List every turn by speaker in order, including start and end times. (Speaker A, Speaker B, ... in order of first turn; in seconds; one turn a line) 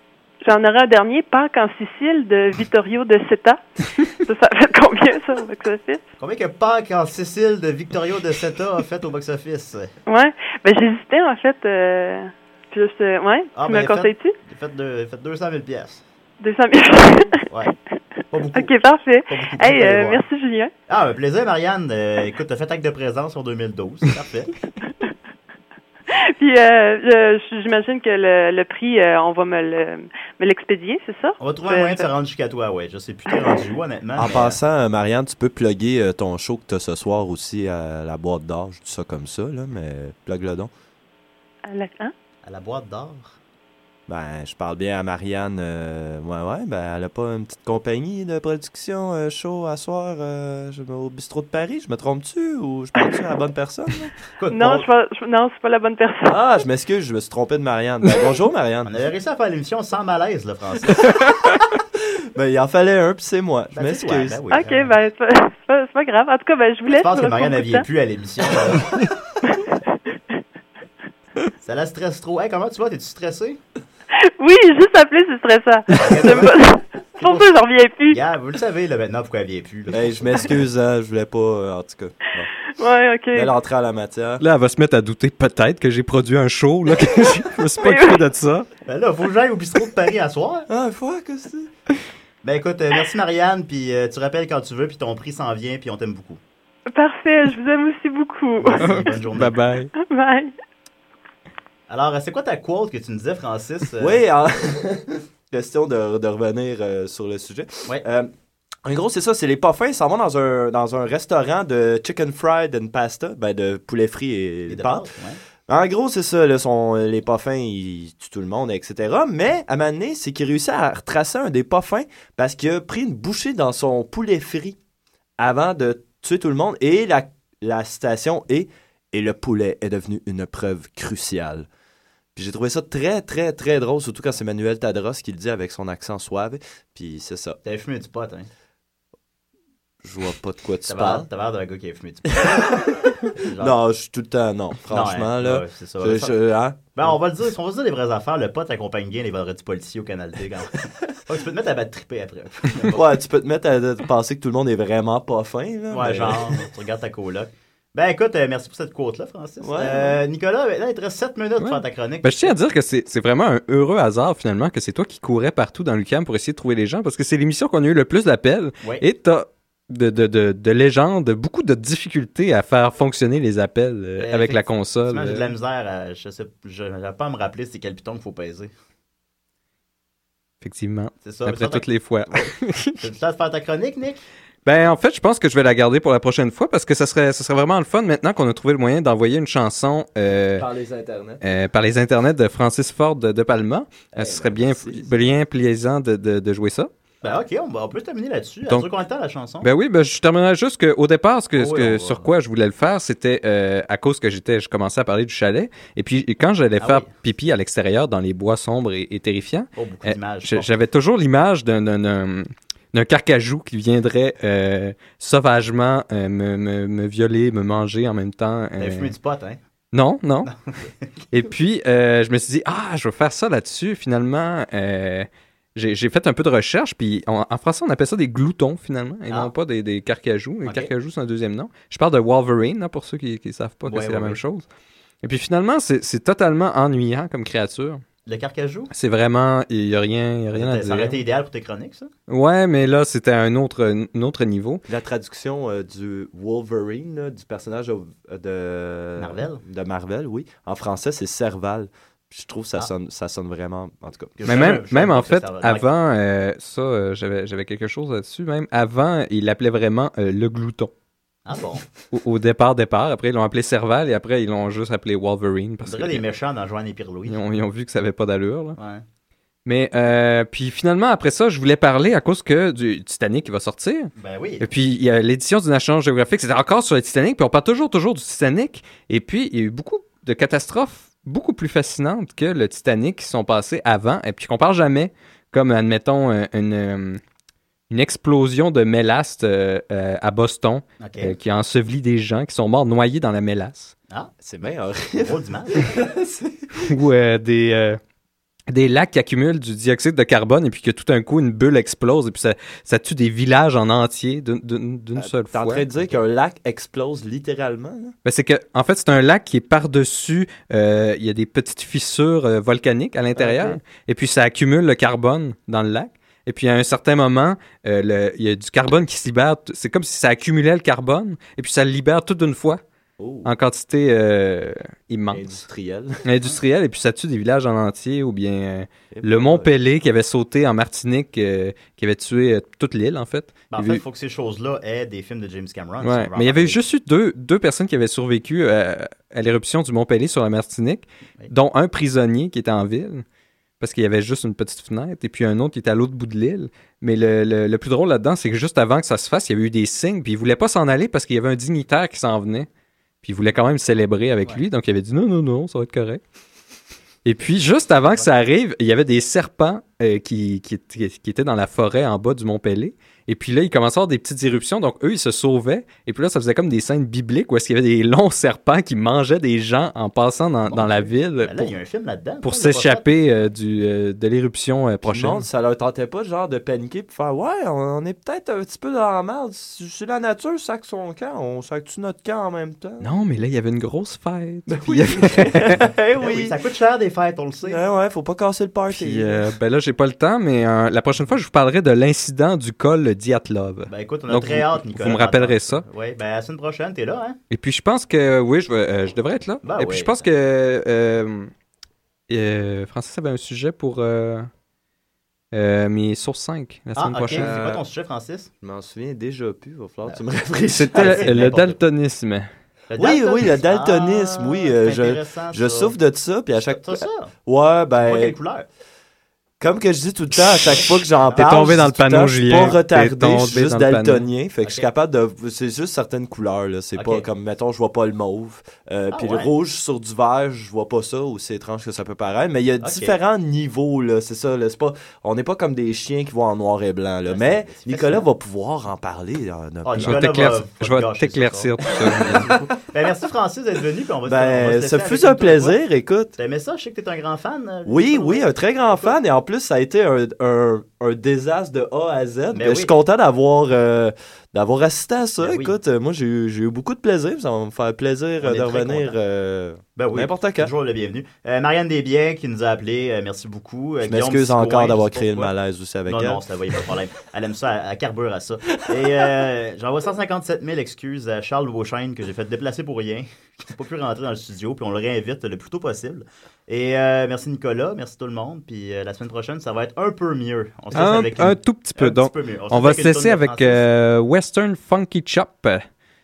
Speaker A: 0.4-6.0
Speaker B: 6.2-9.9
Speaker A: 10.1-14.4
Speaker B: 13.6-16.0
Speaker A: 16.4-17.5
Speaker B: 18.3-18.7
Speaker A: 18.5-20.7
Speaker B: 19.3-20.2
Speaker B: 20.9-24.5
Speaker A: 26.1-32.1
Speaker B: 31.4-34.6
Speaker C: 34.2-40.7
Speaker A: 41.7-42.1
Speaker B: 42.5-43.4
Speaker C: 44.1-54.1
Speaker B: 54.4-54.9
Speaker A: 54.5-56.4
Speaker C: 56.3-58.9
Speaker B: 58.9-61.1
Speaker C: 62.4-64.4
Speaker B: 63.7-64.9
Speaker A: 64.5-67.9
Speaker B: 66.9-69.1
Speaker B: 71.6-73.6
Speaker A: 74.2-78.2
Speaker B: 76.0-76.6
Speaker B: 77.2-77.5
Speaker B: 78.1-80.7
Speaker C: 79.9-82.5
Speaker A: 82.8-83.5
Speaker C: 83.3-84.4
Speaker D: 84.4-88.7
Speaker A: 87.8-88.2
Speaker B: 88.9-90.7
Speaker C: 90.7-91.7
Speaker B: 92.4-96.4
Speaker A: 96.9-99.1
Speaker B: 98.6-99.6
Speaker D: 98.8-99.9
Speaker A: 99.9-100.5
Speaker B: 101.9-104.2
Speaker C: 104.0-108.3
Speaker C: 108.8-115.1
Speaker B: 114.7-115.4
Speaker C: 115.7-124.8
Speaker C: 125.4-131.7
Speaker C: 132.3-137.6
Speaker B: 137.6-138.5
Speaker C: 140.0-141.3
Speaker B: 140.9-142.8
Speaker C: 142.3-147.2
Speaker B: 143.3-143.8
Speaker B: 144.9-153.1
Speaker C: 152.9-156.6
Speaker B: 155.9-162.6
Speaker C: 159.6-160.2
Speaker D: 161.6-175.5
Speaker B: 174.2-178.7
Speaker D: 180.6-183.0
Speaker B: 181.2-184.2
Speaker D: 184.7-190.7
Speaker C: 190.6-191.5
Speaker D: 191.4-196.9
Speaker C: 194.1-195.4
Speaker B: 197.2-199.7
Speaker D: 199.6-219.1
Speaker B: 201.6-202.3
Speaker B: 206.8-207.1
Speaker B: 209.8-210.7
Speaker B: 218.8-219.6
Speaker D: 219.9-220.5
Speaker B: 220.5-221.1
Speaker D: 221.3-234.7
Speaker B: 230.7-230.9
Speaker B: 233.9-234.4
Speaker D: 235.2-238.0
Speaker B: 238.3-238.9
Speaker D: 238.9-241.2
Speaker B: 240.5-242.1
Speaker D: 242.3-244.8
Speaker C: 244.9-254.4
Speaker B: 249.2-249.6
Speaker B: 254.4-255.9
Speaker D: 254.4-260.9
Speaker B: 261.5-261.9
Speaker D: 262.1-266.2
Speaker B: 265.9-267.4
Speaker D: 267.3-268.8
Speaker B: 268.8-269.0
Speaker D: 269.6-287.2
Speaker B: 274.2-274.6
Speaker D: 287.9-293.9
Speaker B: 291.0-291.4
Speaker C: 294.4-297.0
Speaker B: 295.2-295.9
Speaker D: 296.8-298.0
Speaker D: 298.7-305.9
Speaker C: 305.2-308.1
Speaker D: 308.2-322.8
Speaker C: 313.4-313.8
Speaker C: 323.2-323.5
Speaker D: 323.4-325.6
Speaker C: 325.3-326.1
Speaker D: 326.2-334.0
Speaker C: 329.1-329.8
Speaker B: 333.7-336.8
Speaker D: 336.0-343.2
Speaker D: 343.8-352.7
Speaker D: 353.2-356.2
Speaker D: 357.2-371.7
Speaker B: 370.7-373.1
Speaker D: 372.4-375.4
Speaker C: 375.1-383.1
Speaker D: 383.0-385.8
Speaker C: 384.7-386.6
Speaker B: 386.2-387.8
Speaker C: 387.6-389.5
Speaker D: 388.9-395.9
Speaker B: 393.9-397.4
Speaker D: 397.5-401.5
Speaker B: 399.6-400.3
Speaker D: 402.3-404.5
Speaker D: 405.5-407.8
Speaker B: 407.0-408.5
Speaker C: 407.3-407.8
Speaker C: 408.6-411.8
Speaker D: 410.7-412.5
Speaker B: 410.9-411.7
Speaker B: 412.9-416.0
Speaker C: 412.9-418.4
Speaker B: 416.6-417.3
Speaker B: 418.0-418.7
Speaker C: 419.6-440.2
Speaker B: 420.7-421.6
Speaker D: 421.4-424.3
Speaker B: 424.6-424.9
Speaker B: 427.0-427.3
Speaker B: 429.1-429.5
Speaker B: 432.8-433.2
Speaker B: 437.2-438.3
Speaker B: 439.8-445.8
Speaker D: 440.0-442.5
Speaker C: 444.2-446.4
Speaker B: 446.4-449.1
Speaker C: 447.9-460.7
Speaker B: 452.5-452.9
Speaker B: 455.4-455.8
Speaker B: 458.4-459.2
Speaker B: 460.0-465.5
Speaker C: 464.0-466.4
Speaker B: 466.1-483.9
Speaker D: 480.9-485.9